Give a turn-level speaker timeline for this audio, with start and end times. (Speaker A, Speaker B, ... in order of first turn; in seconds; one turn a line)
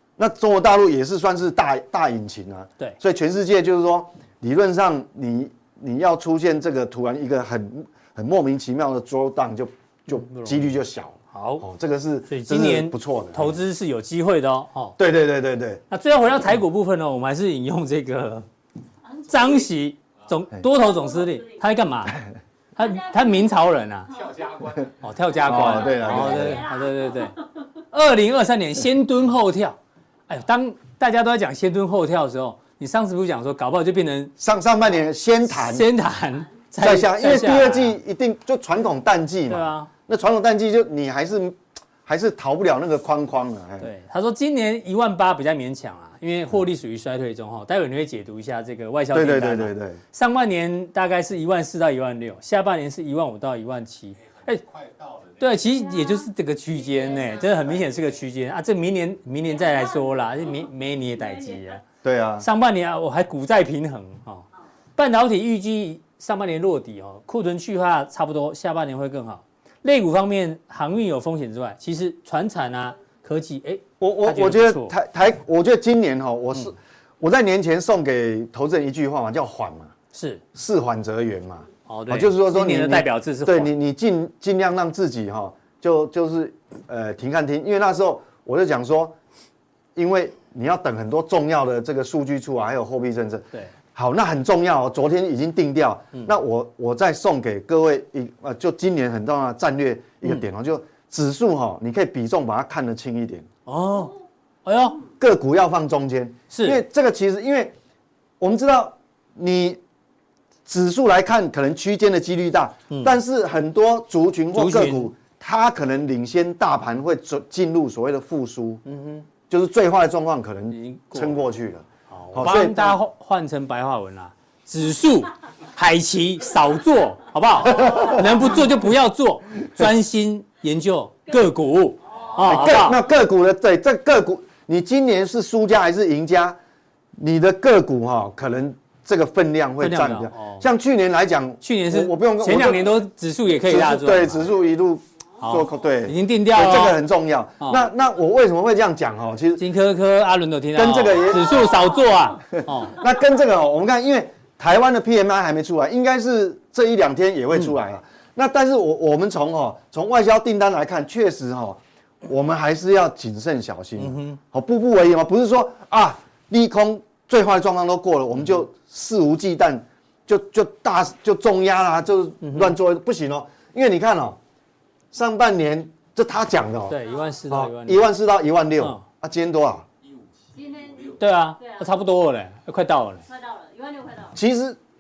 Speaker A: 0.2-13.6
Speaker B: 10.2-10.7
Speaker B: 11.3-11.7
Speaker B: 12.3-15.0
Speaker A: 15.0-15.8
Speaker B: 15.9-18.5
Speaker C: 19.1-19.7
Speaker B: 19.3-22.2
Speaker C: 20.7-21.6
Speaker B: 22.8-24.1
Speaker C: 22.8-24.5
Speaker D: 24.1-25.0
Speaker B: 25.0-27.4
Speaker A: 25.4-26.7
Speaker C: 25.4-27.4
Speaker B: 27.9-29.8
Speaker B: 30.3-34.3
Speaker A: 34.4-35.9
Speaker B: 35.5-38.0
Speaker A: 36.8-43.9
Speaker B: 39.5-39.9
Speaker B: 43.8-54.6
Speaker A: 49.1-50.0
Speaker D: 54.2-55.6
Speaker B: 55.4-61.8
Speaker C: 55.7-57.7
Speaker C: 59.5-60.7
Speaker C: 61.2-61.8
Speaker A: 62.0-62.5
Speaker B: 62.4-64.5
Speaker B: 65.0-75.0
Speaker A: 74.0-79.9
Speaker B: 80.1-80.4
Speaker A: 80.5-89.2
Speaker B: 81.9-83.7
Speaker A: 90.0-103.5
Speaker B: 103.7-104.1
Speaker B: 104.7-105.0
Speaker A: 105.2-107.7
Speaker B: 106.5-106.8
Speaker A: 108.4-109.8
Speaker A: 110.7-118.8
Speaker B: 112.9-113.2
Speaker B: 114.5-115.1
Speaker B: 118.9-119.3
Speaker A: 119.5-123.0
Speaker B: 120.7-121.4
Speaker B: 122.1-133.1
Speaker A: 127.7-128.2
Speaker C: 132.1-132.7
Speaker A: 132.4-136.6
Speaker A: 137.2-142.9
Speaker B: 139.8-140.6
Speaker B: 141.6-144.5
Speaker A: 143.6-149.6
Speaker B: 145.4-147.0
Speaker B: 147.6-147.9
Speaker B: 149.6-153.0
Speaker A: 150.7-151.8
Speaker A: 152.5-174.4
Speaker B: 164.0-164.4
Speaker B: 172.4-172.8
Speaker A: 175.1-177.0
Speaker B: 176.9-178.1
Speaker C: 177.0-177.4
Speaker A: 177.5-179.8
Speaker D: 180.1-181.2
Speaker C: 180.5-181.9
Speaker B: 181.2-183.2
Speaker C: 183.3-184.4
Speaker A: 184.3-184.8